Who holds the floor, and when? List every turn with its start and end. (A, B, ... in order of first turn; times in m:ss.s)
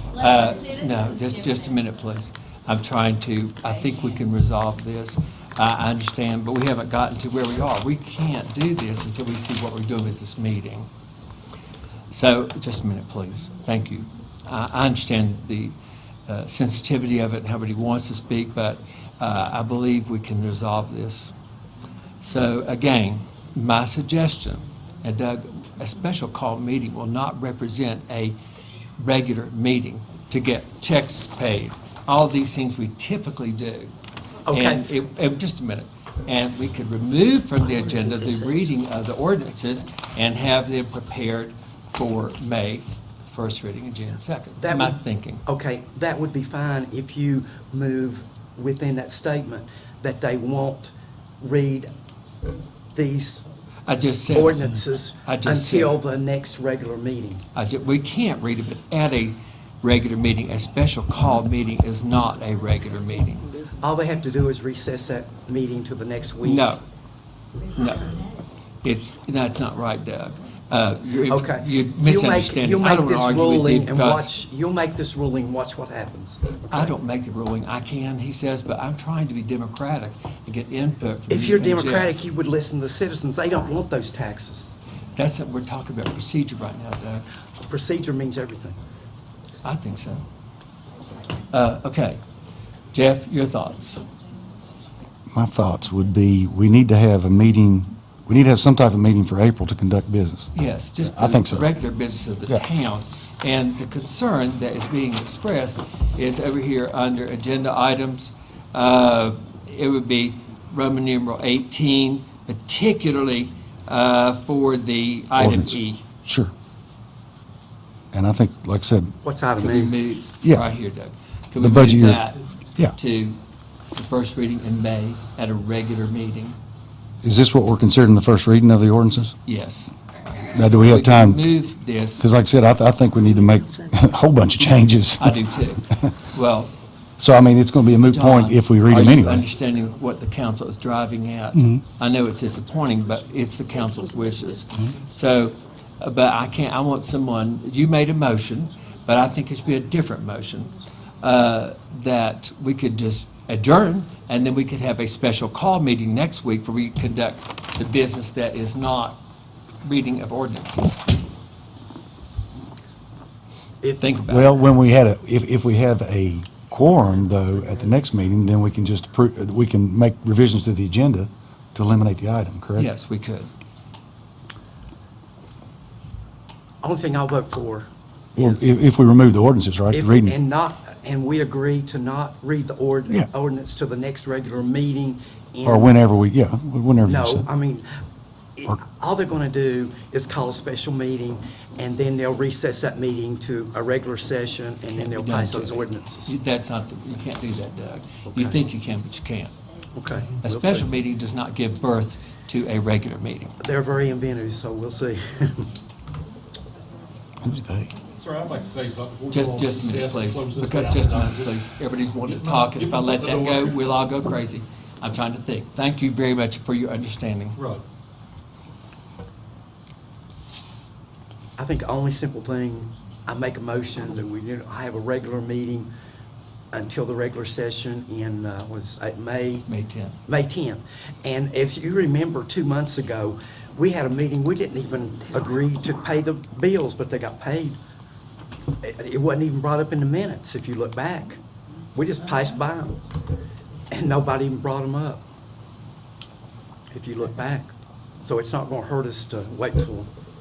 0:00.2-0:10.9 A
0:12.1-0:15.8 A
0:16.3-0:21.3 A
0:22.2-0:28.4 A
0:29.0-0:33.9 A
0:34.5-0:34.9 B
0:34.5-0:45.4 A
0:44.6-0:51.9 B
0:53.0-0:53.5 B
0:53.9-0:55.9 A
0:54.3-0:57.4 B
0:57.6-1:03.5 A
1:03.8-1:06.7 B
1:06.4-1:06.8 A
1:07.7-1:08.2 A
1:08.8-1:14.3 A
1:11.3-1:16.9 B
1:16.7-1:22.2 A
1:21.3-1:24.7 B
1:25.2-1:27.2 A
1:27.7-1:28.8 B
1:29.6-1:30.2 A
1:31.5-1:32.2 A
1:32.9-1:34.0 A
1:35.3-1:40.5 C
1:40.5-1:56.0 A
1:41.0-1:41.7 C
1:55.4-1:56.5 C
1:58.1-1:59.2 C
1:59.2-1:59.9 B
1:59.6-2:03.4 A
2:01.6-2:02.2 C
2:03.9-2:06.6 A
2:07.2-2:09.4 C
2:09.5-2:12.3 A
2:10.5-2:11.4 C
2:12.2-2:15.4 C
2:14.7-2:16.7 A
2:17.2-2:19.4 C
2:18.1-2:39.2 A
2:39.8-2:41.1 A
2:43.8-2:44.1 B
2:44.0-2:44.5 A
2:44.3-2:52.9 C
2:52.8-2:53.5 A
2:56.8-2:58.7 B
2:58.4-3:00.4 C
2:59.9-3:06.0 B
3:05.6-3:07.5 C
3:07.0-3:08.0 B
3:08.6-3:16.3 B
3:14.9-3:19.6 A
3:18.3-3:18.6 B
3:20.0-3:20.9 B
3:20.4-3:23.5 A
3:23.6-3:25.7 B
3:27.4-3:27.9 C
3:28.1-3:31.6 D
3:29.3-3:37.6 A
3:32.2-3:33.9 D
3:37.6-3:37.8 D
3:41.6-3:45.9 B
3:46.7-3:49.7 B
3:49.7-3:50.2 A
3:50.3-3:57.8 B
3:58.8-4:01.4 B
4:02.0-4:03.0 B
4:03.9-4:05.2 B
4:06.9-4:07.7 B
4:08.2-4:10.1 B